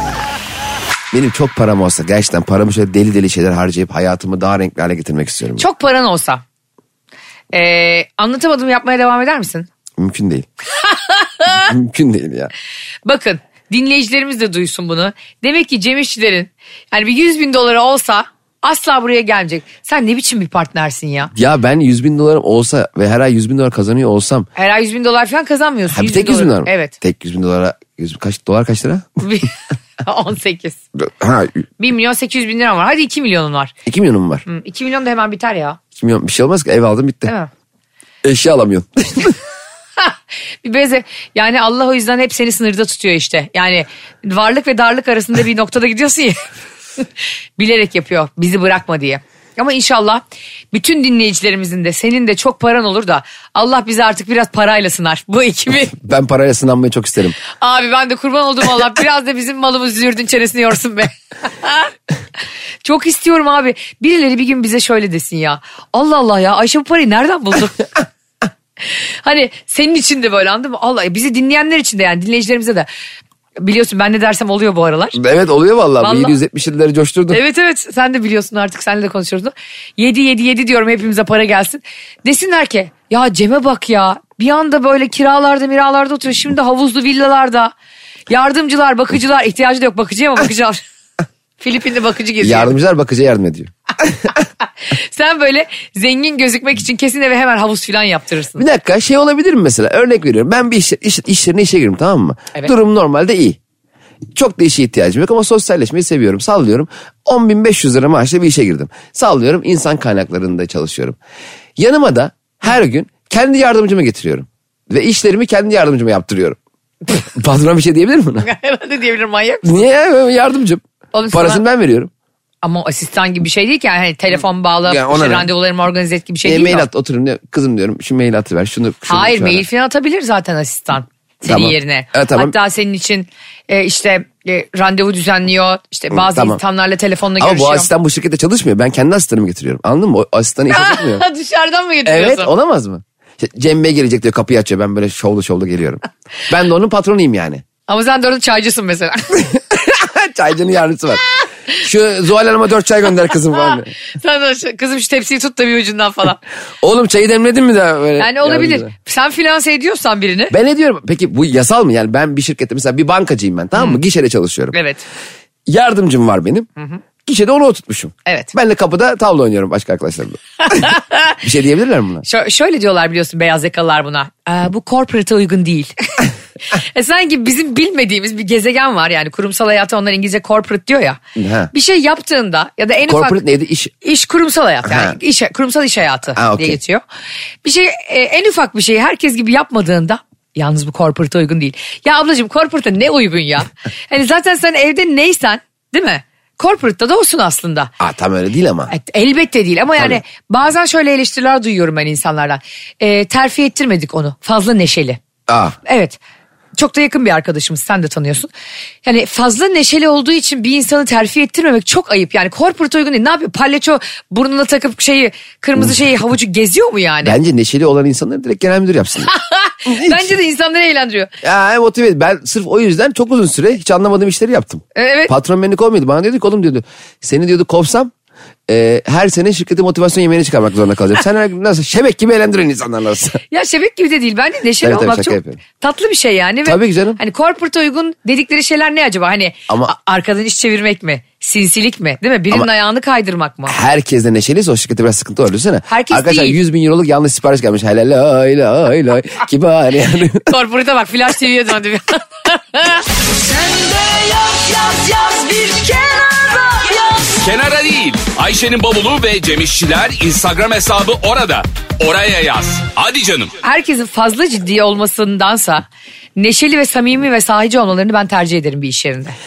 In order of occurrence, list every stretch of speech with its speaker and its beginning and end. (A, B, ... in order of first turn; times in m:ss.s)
0:01.1-0:05.6 A
0:05.6-0:06.4 B
0:07.5-0:09.7 B
0:10.0-0:10.4 A
0:10.8-0:11.7 B
0:11.5-0:12.5 A
0:13.0-0:21.3 B
0:21.3-0:24.5 A
0:24.6-0:26.9 B
0:25.9-0:29.2 A
0:29.2-0:30.8 B
0:31.0-0:31.6 A
0:31.8-0:33.7 B
0:33.8-0:34.4 A
0:34.4-0:35.8 B
0:36.0-0:37.3 A
0:38.2-0:39.4 A
0:40.0-0:46.5 B
0:47.6-0:55.9 B
0:55.9-0:57.4 A
0:57.5-1:01.9 B
1:02.8-1:07.9 B
1:08.8-1:12.9 B
1:13.6-1:15.2 B
1:15.1-1:17.4 A
1:16.0-1:16.4 B
1:17.3-1:27.7 B
1:28.3-1:30.8 B
1:31.6-1:32.8 B
1:32.4-1:34.3 A
1:34.9-1:38.6 B
1:38.6-1:43.6 A
1:44.3-1:51.2 A
1:51.8-1:58.5 A
1:58.4-1:59.8 B
1:59.6-2:02.1 A
2:01.1-2:01.6 B
2:02.6-2:06.9 B
2:04.9-2:05.5 A
2:06.4-2:09.6 A
2:09.0-2:17.9 B
2:11.4-2:12.5 A
2:16.1-2:16.6 A
2:17.4-2:21.2 A
2:20.7-2:22.5 B
2:22.0-2:27.6 A
2:27.9-2:29.5 B
2:29.5-2:33.9 A
2:33.5-2:36.4 B
2:36.8-2:38.9 A
2:38.2-2:40.5 B
2:40.5-2:44.7 A
2:44.7-2:45.0 B
2:45.7-2:46.7 A
2:47.2-2:52.2 A
2:48.2-2:48.5 B
2:50.6-2:51.4 B
2:52.2-3:01.2 B
3:01.4-3:01.7 A
3:01.7-3:03.4 B
3:03.1-3:03.9 A
3:04.0-3:07.0 B
3:04.8-3:05.2 A
3:06.4-3:06.8 A
3:07.6-3:17.9 B
3:18.0-3:18.9 A
3:18.9-3:25.2 B
3:25.5-3:25.8 A
3:25.8-3:26.2 B
3:26.8-3:28.5 B
3:29.0-3:37.4 B
3:37.2-3:39.3 A
3:39.2-3:41.3 B
3:39.9-3:40.3 A
3:41.4-3:48.1 A
3:44.9-3:45.3 B
3:48.7-3:53.4 A
3:53.5-4:03.8 B
3:54.8-3:55.6 A
3:56.6-3:57.2 A
4:03.7-4:10.5 A
4:05.9-4:06.6 B
4:10.5-4:13.0 B
4:13.6-4:13.8 C
4:14.8-4:17.4 B
4:17.4-4:23.5 C
4:23.6-4:25.8 B
4:26.4-4:29.3 B